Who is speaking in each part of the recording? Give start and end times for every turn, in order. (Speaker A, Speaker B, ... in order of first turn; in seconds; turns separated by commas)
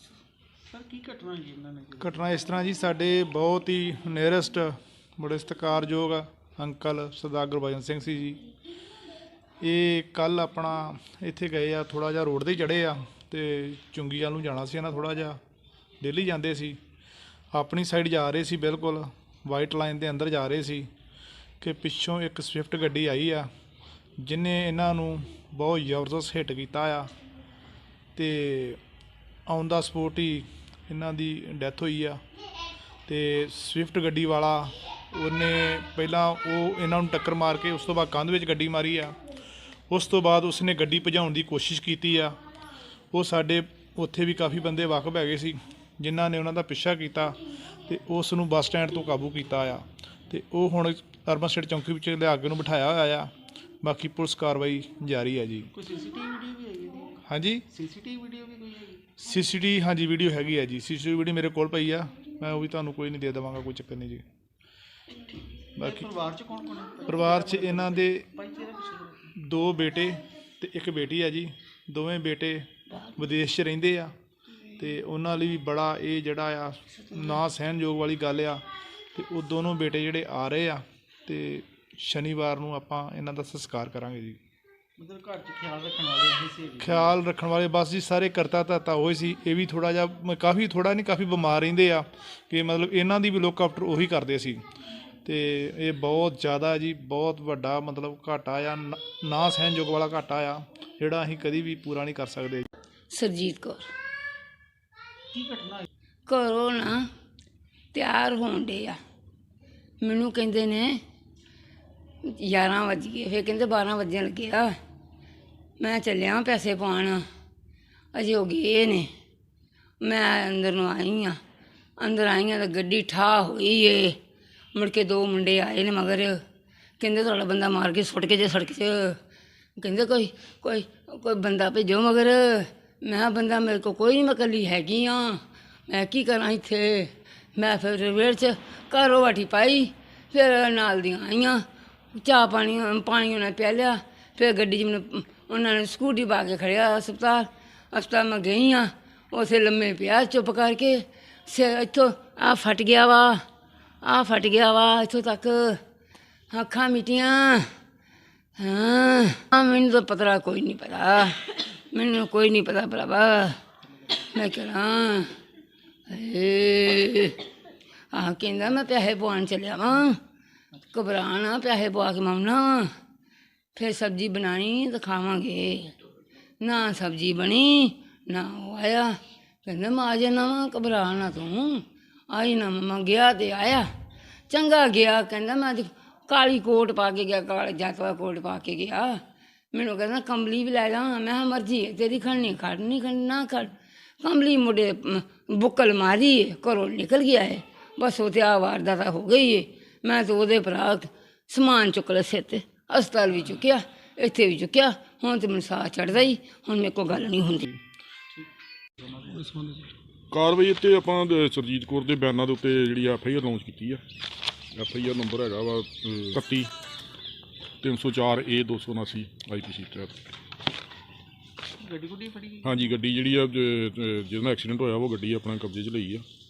Speaker A: 0.7-2.2, Speaker B: 2.0-8.4, Speaker B: 9.6-15.4, Speaker B: 16.0-16.8, Speaker B: 17.5-20.9, Speaker B: 21.6-23.5, Speaker B: 24.2-27.1, Speaker B: 28.1-28.8, Speaker B: 29.5-32.2, Speaker B: 33.1-39.2, Speaker B: 39.9-42.4, Speaker B: 43.1-55.7, Speaker A: 55.7-57.2, Speaker B: 57.2-57.6, Speaker A: 57.7-59.1, Speaker B: 59.2-64.2, Speaker A: 65.1-69.3, Speaker B: 67.0-68.2, Speaker B: 69.3-74.1, Speaker B: 74.7-84.4, Speaker A: 85.0-87.2, Speaker B: 86.8-94.6, Speaker B: 95.2-102.7, Speaker C: 103.1-103.9, Speaker A: 105.3-105.9, Speaker C: 106.3-107.1, Speaker C: 107.9-109.0, Speaker C: 110.0-111.0, Speaker C: 112.2-114.7, Speaker C: 115.8-117.2, Speaker C: 118.1-119.1, Speaker C: 120.0-121.4, Speaker C: 122.0-124.2, Speaker C: 124.7-126.4, Speaker C: 127.0-129.2, Speaker C: 129.8-153.4, Speaker C: 154.0-155.8, Speaker C: 156.5-157.7, Speaker C: 158.6-163.6, Speaker C: 164.1-165.3, Speaker C: 166.1-167.4, Speaker C: 168.1-170.2, Speaker C: 170.9-172.9, Speaker C: 173.7-175.9, Speaker C: 176.6-183.9, Speaker C: 184.5-189.2, Speaker C: 189.7-207.7, Speaker A: 209.0-209.8, Speaker D: 210.3-214.0, Speaker D: 214.7-216.7, Speaker D: 217.8-220.2, Speaker A: 221.8-222.9, Speaker D: 222.6-226.2